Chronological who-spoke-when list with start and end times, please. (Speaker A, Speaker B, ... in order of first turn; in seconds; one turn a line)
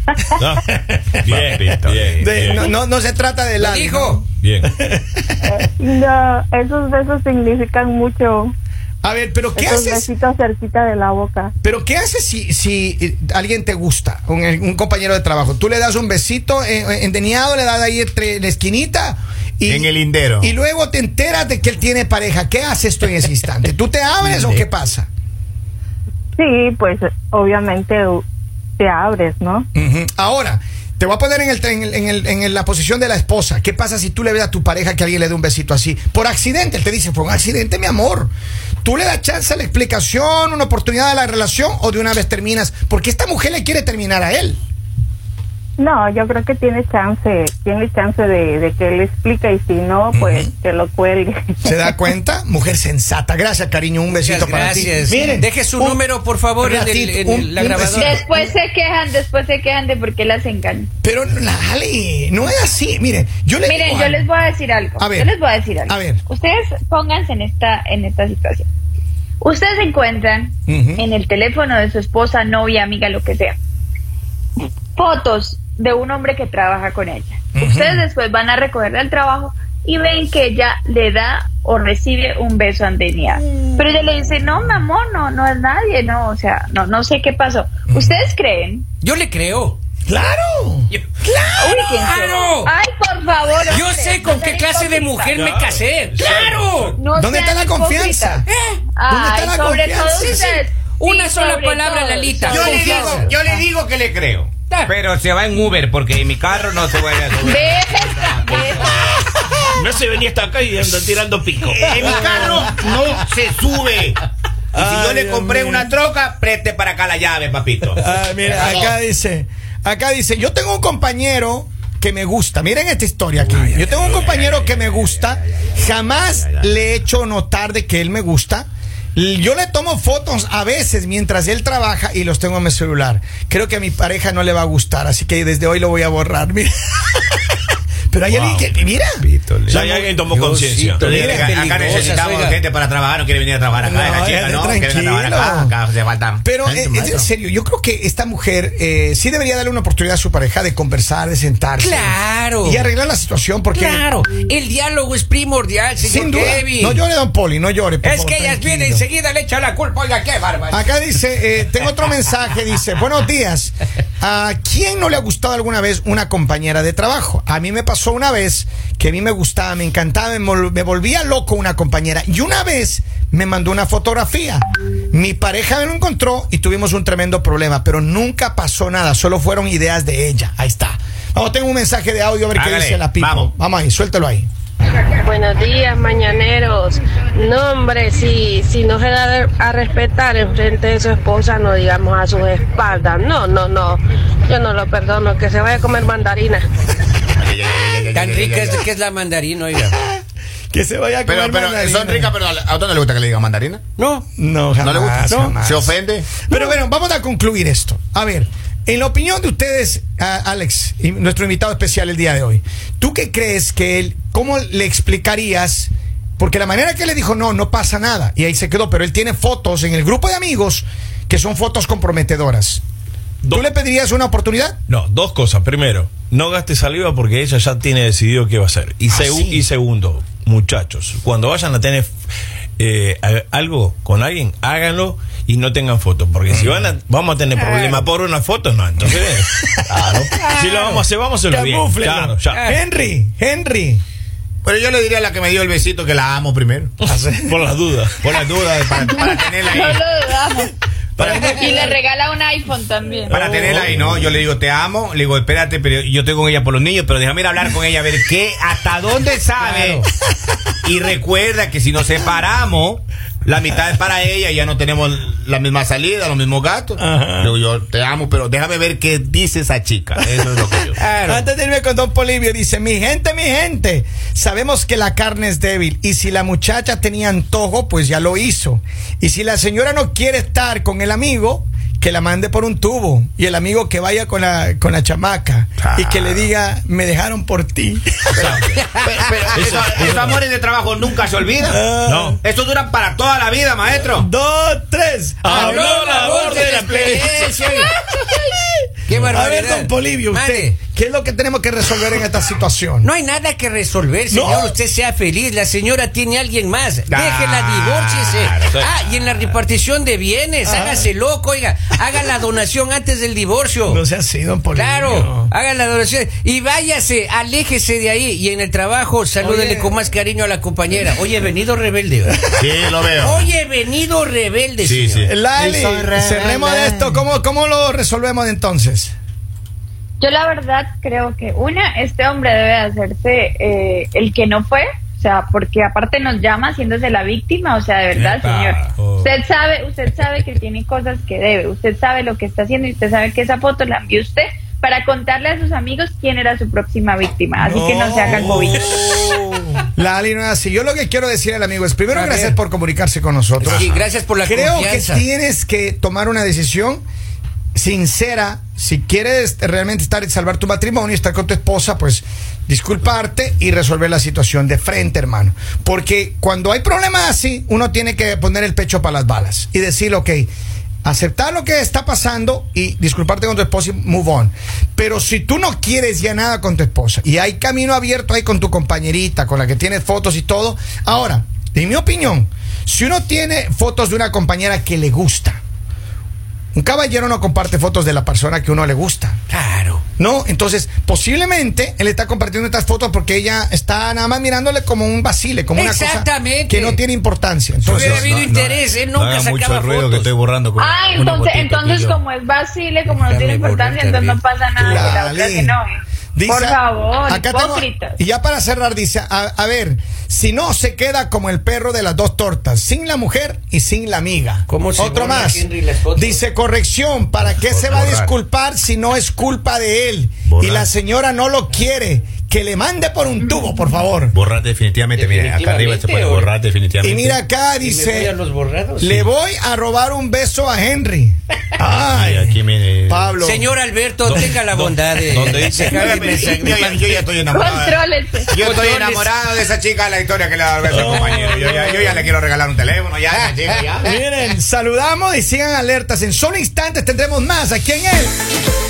Speaker A: 0.4-2.6
Speaker B: 1.2-2.3
Speaker C: 2.2-5.4
Speaker D: 3.6-4.2
Speaker A: 4.4-4.7
Speaker E: 5.5-8.5
Speaker C: 9.0-10.1
Speaker E: 9.6-11.5
Speaker C: 11.6-25.1
Speaker B: 19.7-20.5
Speaker E: 26.4-28.2
Speaker E: 28.8-29.6
Speaker C: 29.8-38.3
Speaker C: 38.8-44.6
Speaker E: 45.8-52.0
Speaker C: 50.1-50.5
Speaker C: 51.6-56.0
Speaker D: 54.1-58.2
Speaker C: 56.6-58.5
Speaker F: 58.0-60.9
Speaker C: 61.0-64.2
Speaker F: 63.6-68.7
Speaker C: 65.0-65.3
Speaker C: 65.9-66.2
Speaker F: 69.4-73.6
Speaker C: 70.7-71.0
Speaker F: 75.0-88.8
Speaker C: 77.5-78.1
Speaker C: 83.4-84.0
Speaker C: 87.9-88.2
Speaker D: 89.0-89.8
Speaker C: 90.1-90.9
Speaker D: 90.9-92.7
Speaker F: 91.6-95.4
Speaker D: 93.7-97.0
Speaker A: 95.3-96.9
Speaker C: 96.2-96.5
Speaker F: 97.0-98.5
Speaker C: 97.2-98.5
Speaker D: 98.5-98.8
Speaker F: 99.0-103.2
Speaker C: 99.1-100.7
Speaker D: 101.0-103.4
Speaker B: 102.5-109.2
Speaker D: 104.7-104.9
Speaker F: 107.4-109.5
Speaker A: 109.7-112.7
Speaker B: 111.5-114.2
Speaker C: 112.1-112.5
Speaker A: 114.7-115.9
Speaker B: 114.7-119.0
Speaker C: 118.0-137.4
Speaker B: 123.3-126.7
Speaker C: 138.1-139.2
Speaker A: 138.3-138.7
Speaker B: 139.2-140.1
Speaker A: 139.7-142.1
Speaker D: 140.2-142.6
Speaker B: 141.0-147.3
Speaker C: 141.1-141.5
Speaker C: 143.8-145.8
Speaker C: 146.4-154.1
Speaker D: 151.8-152.9
Speaker D: 153.7-157.0
Speaker C: 156.0-159.1
Speaker D: 158.0-160.8
Speaker C: 160.7-184.5
Speaker B: 182.6-183.5
Speaker G: 185.2-196.7
Speaker B: 197.3-198.8
Speaker D: 198.1-200.0
Speaker C: 200.7-202.3
Speaker B: 201.3-203.8
Speaker D: 204.0-204.3
Speaker C: 204.4-222.8
Speaker B: 204.8-206.5
Speaker D: 205.3-205.6
Speaker C: 223.5-224.8
Speaker A: 224.9-232.1
Speaker C: 229.1-229.7
Speaker A: 232.8-242.7
Speaker C: 239.6-240.0
Speaker D: 240.4-241.0
Speaker C: 241.5-244.0
Speaker D: 242.5-242.8
Speaker B: 244.6-246.9
Speaker A: 247.0-249.0
Speaker C: 247.0-247.6
Speaker B: 248.2-250.0
Speaker F: 249.0-253.4
Speaker A: 251.2-251.9
Speaker B: 253.3-260.0
Speaker A: 253.3-254.3
Speaker D: 259.6-260.1
Speaker B: 260.8-271.0
Speaker C: 267.0-267.6
Speaker D: 271.0-271.5
Speaker C: 271.2-288.5
Speaker B: 285.8-286.5
Speaker B: 288.3-291.8
Speaker A: 289.5-290.4
Speaker C: 291.7-292.4
Speaker A: 291.9-292.4
Speaker B: 292.4-294.3
Speaker C: 294.1-303.1
Speaker A: 295.4-297.5
Speaker D: 295.5-297.9
Speaker D: 299.1-300.8
Speaker D: 303.0-314.0
Speaker C: 304.3-304.8
Speaker B: 307.1-308.8
Speaker C: 310.6-311.1
Speaker C: 313.9-315.5
Speaker D: 314.7-322.4
Speaker C: 319.4-320.0
Speaker B: 322.6-323.5
Speaker D: 323.2-325.3
Speaker B: 324.8-327.2
Speaker C: 325.2-329.1
Speaker F: 330.2-349.4
Speaker B: 338.2-338.8
Speaker A: 339.0-339.3
Speaker C: 347.6-353.9
Speaker A: 348.3-349.3
Speaker D: 352.1-352.6
Speaker D: 353.6-355.3
Speaker C: 354.4-357.0
Speaker C: 357.8-370.5
Speaker C: 371.0-385.6
Speaker C: 386.7-389.4
Speaker D: 389.5-390.0
Speaker C: 390.2-398.3
Speaker D: 395.8-397.0
Speaker D: 397.8-400.3
Speaker B: 397.8-402.2
Speaker F: 400.8-408.2
Speaker D: 403.1-404.4
Speaker C: 404.8-405.8
Speaker C: 406.4-424.4
Speaker D: 414.7-416.4
Speaker B: 417.4-418.3
Speaker B: 420.5-420.9
Speaker F: 423.4-423.9
Speaker B: 424.3-427.4
Speaker D: 425.1-426.5
Speaker C: 427.0-428.3
Speaker D: 427.8-429.1
Speaker C: 429.0-433.7
Speaker B: 431.8-433.3
Speaker D: 433.4-437.2
Speaker A: 434.3-436.2
Speaker B: 435.9-444.1
Speaker F: 437.5-438.5
Speaker D: 438.5-439.4
Speaker A: 440.9-442.2
Speaker C: 444.0-448.4